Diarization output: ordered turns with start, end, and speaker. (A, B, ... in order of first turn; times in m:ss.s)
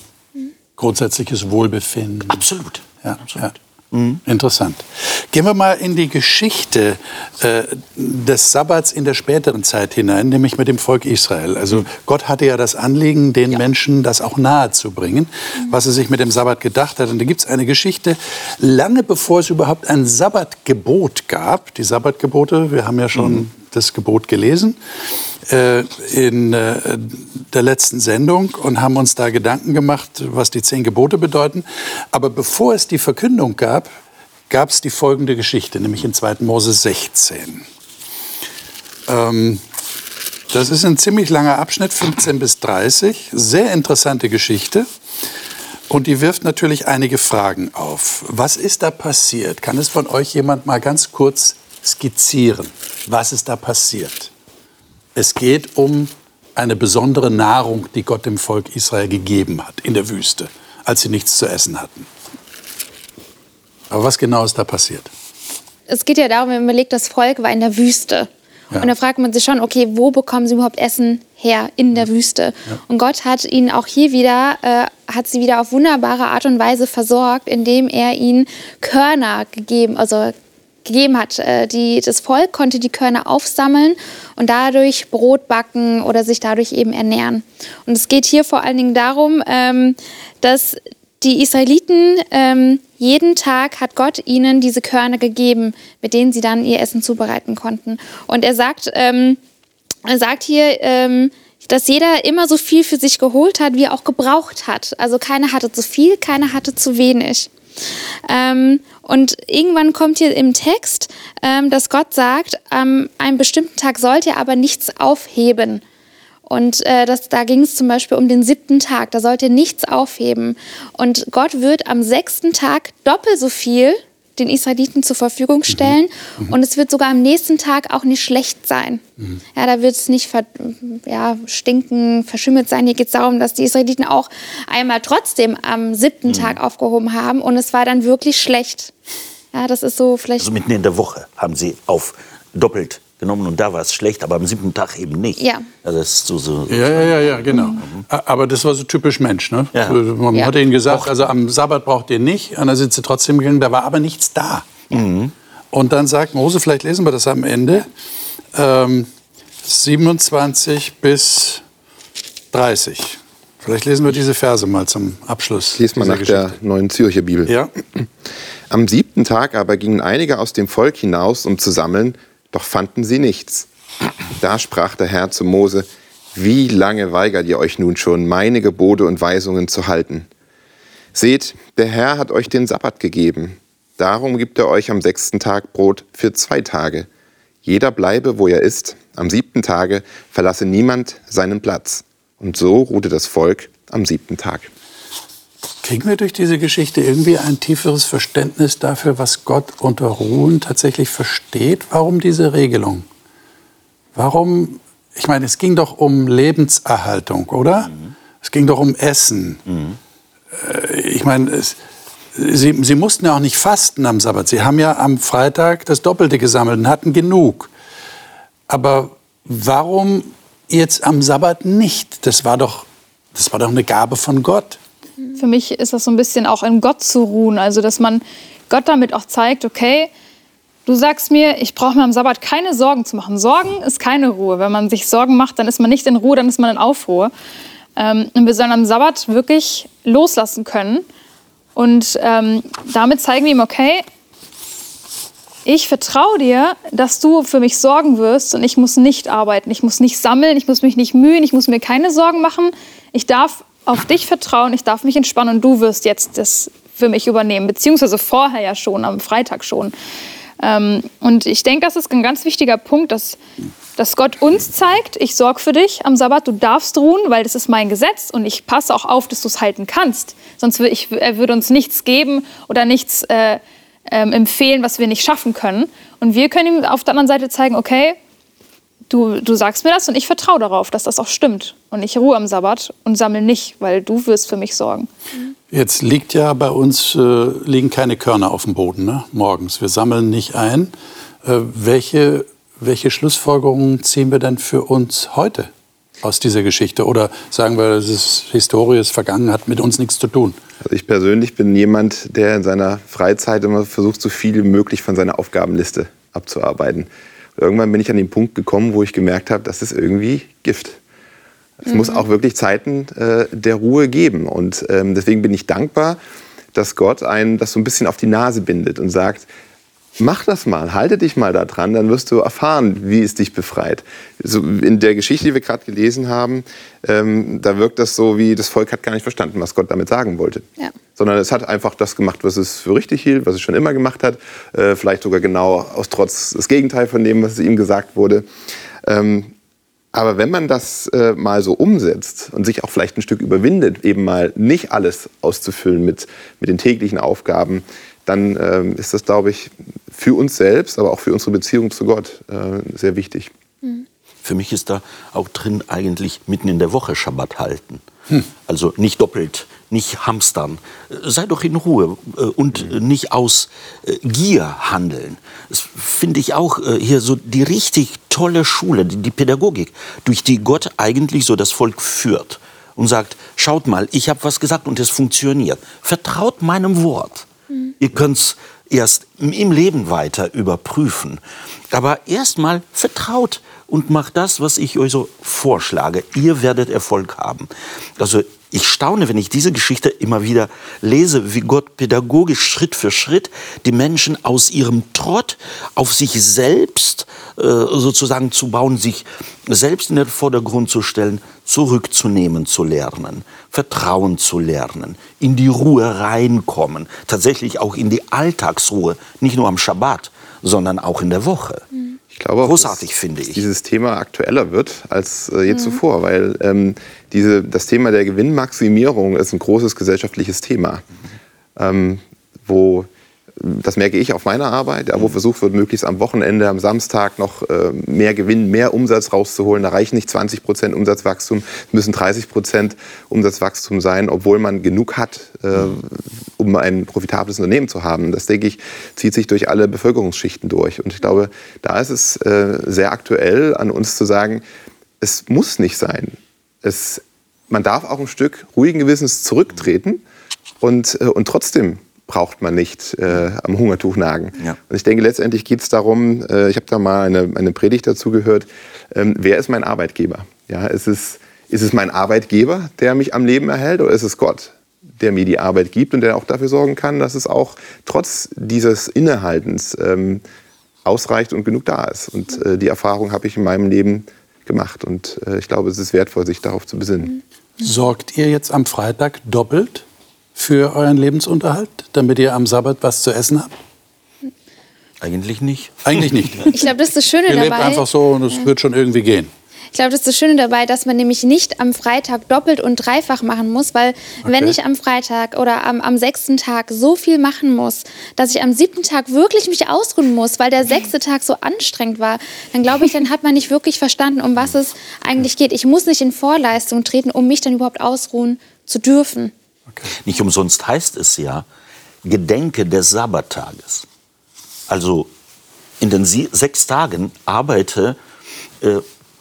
0:00.8-0:02.4 A
0:02.3-0:04.2 B
0:03.0-0:03.6 A
0:04.2-0:24.8 A
0:25.5-0:33.9 A
0:34.5-0:37.7 A
0:39.1-0:39.6 A
0:40.5-0:44.9 A
0:45.9-0:54.3 A
0:55.2-1:02.1 A
1:03.9-1:05.1 A
1:05.9-1:08.3 C
1:08.8-1:20.3 C
1:20.8-1:39.4 C
1:40.1-1:47.5 C
1:48.3-1:55.8 C
1:56.5-2:09.0 C
2:09.6-2:18.9 C
2:16.3-2:16.6 B
2:19.5-2:20.5 C
2:20.4-2:28.0 B
2:25.4-2:25.7 C
2:26.7-2:34.7 A
2:29.7-2:31.1 B
2:34.9-2:35.3 B
2:35.7-2:37.9 A
2:38.5-2:39.1 A
2:39.6-2:41.6 A
2:42.5-2:46.6 A
2:45.8-2:48.1 D
2:47.5-2:47.7 A
2:48.7-2:53.7 D
2:54.4-3:00.3 D
3:01.1-3:07.1 D
3:07.6-3:14.7 D
3:15.8-3:23.1 A
3:24.2-3:29.6 A
3:29.7-3:30.0 B
3:30.5-3:31.8 A
3:32.3-3:37.7 A
3:38.7-3:44.8 A
3:45.4-3:50.1 E
3:50.9-3:57.3 E
3:58.0-4:01.0 E
4:01.8-4:04.0 E
4:05.7-4:19.9 E
4:20.6-4:23.4 E
4:24.0-4:38.2 E
4:39.1-4:45.1 E
4:45.7-4:50.9 A
4:51.4-4:55.7 A
4:56.2-5:00.6 A
5:00.8-5:11.0 D
5:11.8-5:16.2 D
5:16.7-5:19.5 D
5:20.2-5:38.5 D
5:39.0-5:39.5 D
5:40.1-5:53.5 D
5:54.4-5:58.0 B
5:58.7-6:17.5 B
6:18.0-6:21.4 B
6:21.9-6:51.8 B
6:52.3-7:01.0 D
6:52.6-6:53.6 B
7:01.8-7:24.6 D
7:25.2-7:30.2 D
7:30.8-7:50.4 D
7:51.0-7:57.4 D
7:57.8-8:00.0 A
8:00.6-8:03.7 A
8:05.2-8:06.7 B
8:06.0-8:06.8 A
8:06.7-8:08.7 C
8:07.5-8:09.5 A
8:09.9-8:29.5 C
8:14.4-8:14.8 A
8:30.2-8:31.7 B
8:32.2-8:34.1 B
8:34.9-8:35.3 B
8:36.0-8:38.2 B